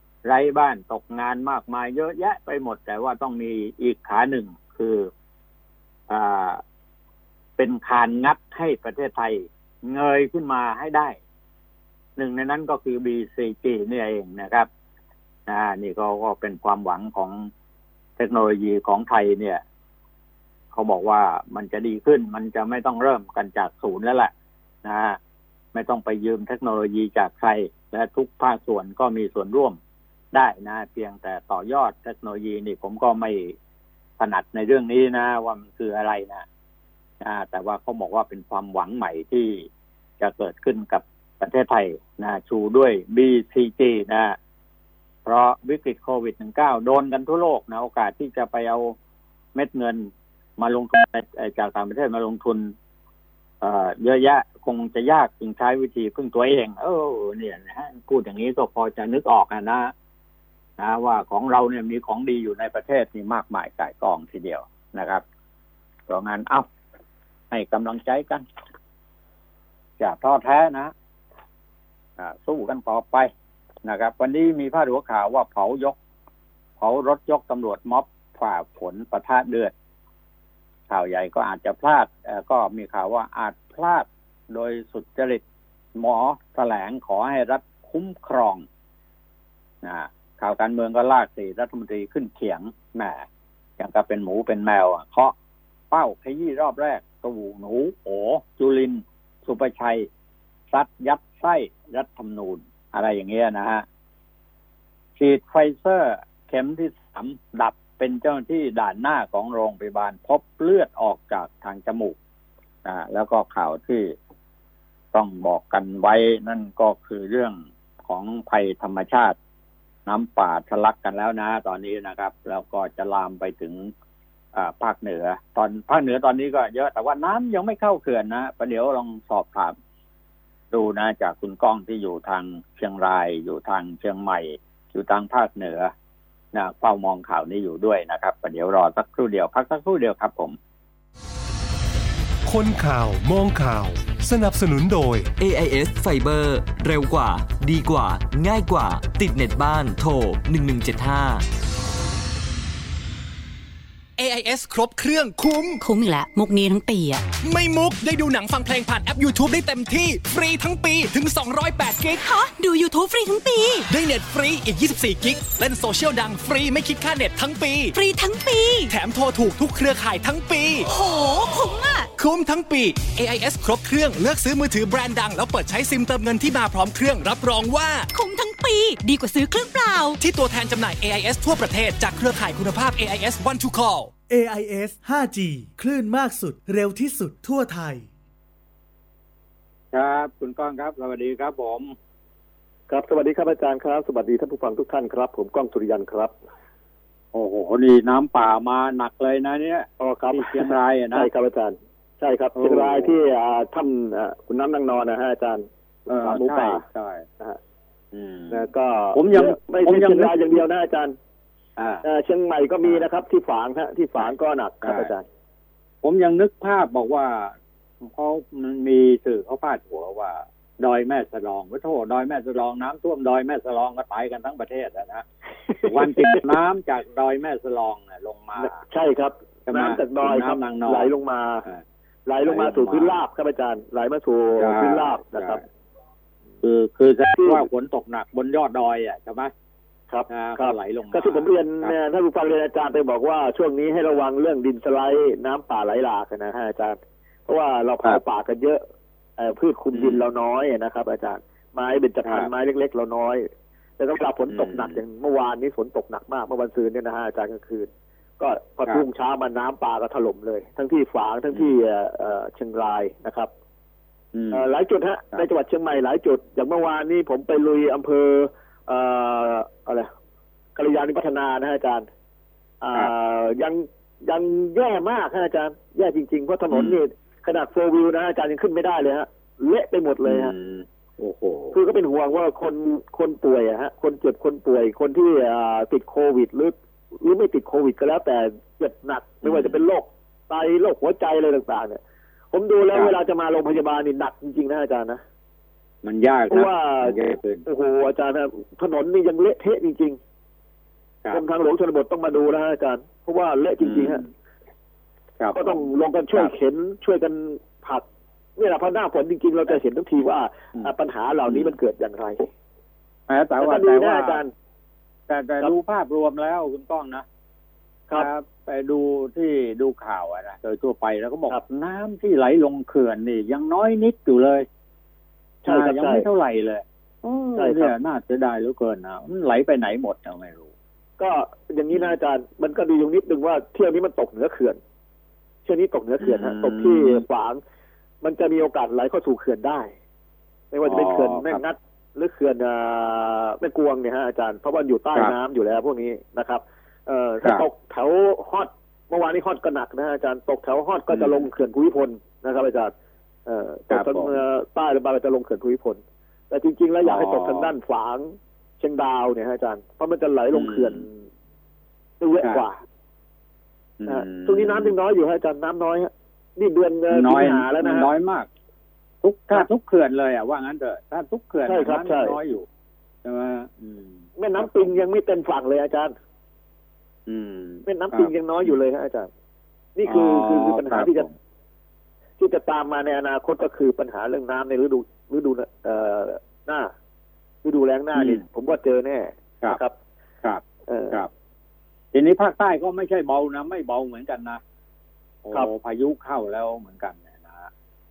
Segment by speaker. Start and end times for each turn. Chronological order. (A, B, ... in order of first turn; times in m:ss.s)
0:00.2-0:05.1 A
0:06.1-0:06.6 A
0:07.6-0:11.2 A
0:12.2-0:14.7 A
0:15.5-0:17.5 A
0:18.2-0:19.6 A
0:20.7-0:24.3 A
0:24.8-0:25.2 A
0:25.7-0:29.8 A
0:30.3-0:33.6 A
0:34.2-0:36.4 A
0:37.2-0:44.4 A
0:45.2-0:49.0 A
0:49.5-0:52.7 A
0:53.6-0:59.9 A
1:00.8-1:05.2 A
1:06.1-1:06.7 A
1:07.5-1:08.4 A
1:10.0-1:10.9 A
1:12.2-1:13.3 A
1:13.8-1:16.0 A
1:16.8-1:19.7 A
1:20.9-1:25.4 A
1:26.0-1:28.6 A
1:29.8-1:33.2 A
1:33.8-1:35.3 A
1:35.9-1:40.1 A
1:40.7-1:43.8 A
1:45.2-1:52.2 A
1:52.8-1:54.1 A
1:55.1-1:59.4 A
2:00.0-2:03.9 A
2:04.5-2:09.7 A
2:10.7-2:15.9 A
2:16.5-2:20.6 A
2:22.4-2:25.3 B
2:25.4-2:31.4 C
2:34.2-2:35.8 D
2:35.8-2:37.2 E
2:37.4-2:42.3 D
2:42.2-2:43.8 E
2:43.8-2:48.0 D
2:47.9-2:48.9 E
2:48.9-2:50.9 D
2:50.9-2:52.1 E
2:52.2-2:58.1 D
2:58.1-3:00.2 E
3:00.2-3:04.1 D
3:04.3-3:08.1 F
3:09.9-3:11.9 A
3:12.9-3:16.4 G
3:17.3-3:21.3 A
3:20.0-3:26.8 G
3:22.5-3:23.2 A
3:26.1-3:27.2 A
3:28.1-3:30.4 A
3:28.5-3:31.2 G
3:31.8-3:32.0 A
3:32.0-3:35.2 G
3:34.8-3:35.1 A
3:36.0-3:45.2 A
3:45.8-3:48.8 A
3:45.8-3:46.4 G
3:48.6-3:51.7 G
3:49.7-3:51.1 A
3:52.2-3:55.6 G
3:52.4-3:53.2 A
3:54.6-3:55.6 A
3:56.6-3:59.5 A
3:57.4-3:57.7 G
4:00.1-4:08.8 G
4:00.3-4:01.9 A
4:09.4-4:23.5 G
4:09.9-4:10.2 A
4:14.5-4:15.0 A
4:24.3-4:24.6 A
4:24.5-4:30.1 G
4:30.8-4:32.1 G
4:32.8-4:40.5 G
4:36.7-4:37.0 A
4:40.2-4:41.8 A
4:41.7-4:55.2 G
4:49.4-4:49.8 A
4:56.0-4:57.6 A
4:56.5-5:00.2 G
5:01.3-5:04.2 G
5:03.8-5:04.3 A
5:05.4-5:06.5 A
5:05.5-5:08.0 G
5:08.6-5:12.5 G
5:11.4-5:11.7 A
5:13.3-5:14.4 A
5:13.6-5:14.5 G
5:15.3-5:17.2 A
5:18.1-5:24.6 A
5:25.6-5:26.3 G
5:25.6-5:30.7 A
5:27.6-5:27.9 G
5:31.2-5:34.8 G
5:35.6-5:37.6 G
5:36.2-5:37.2 A
5:38.2-5:39.9 G
5:40.7-5:52.9 G
5:40.8-5:41.6 A
5:47.4-5:47.7 A
5:51.1-5:51.5 A
5:53.4-6:01.1 G
5:53.9-5:54.4 A
5:57.0-5:57.7 A
6:00.5-6:01.0 A
6:02.2-6:02.8 G
6:04.0-6:04.9 A
6:04.1-6:08.1 G
6:07.1-6:08.5 A
6:09.2-6:12.6 A
6:11.6-6:12.4 G
6:13.2-6:14.9 A
6:14.4-6:16.1 G
6:17.3-6:18.7 A
6:17.8-6:19.3 G
6:20.0-6:21.3 G
6:20.0-6:21.3 A
6:22.4-6:26.9 G
6:27.6-6:29.9 G
6:28.2-6:28.4 A
6:30.4-6:31.3 A
6:30.9-6:31.2 G
6:32.1-6:34.6 A
6:35.4-6:37.7 A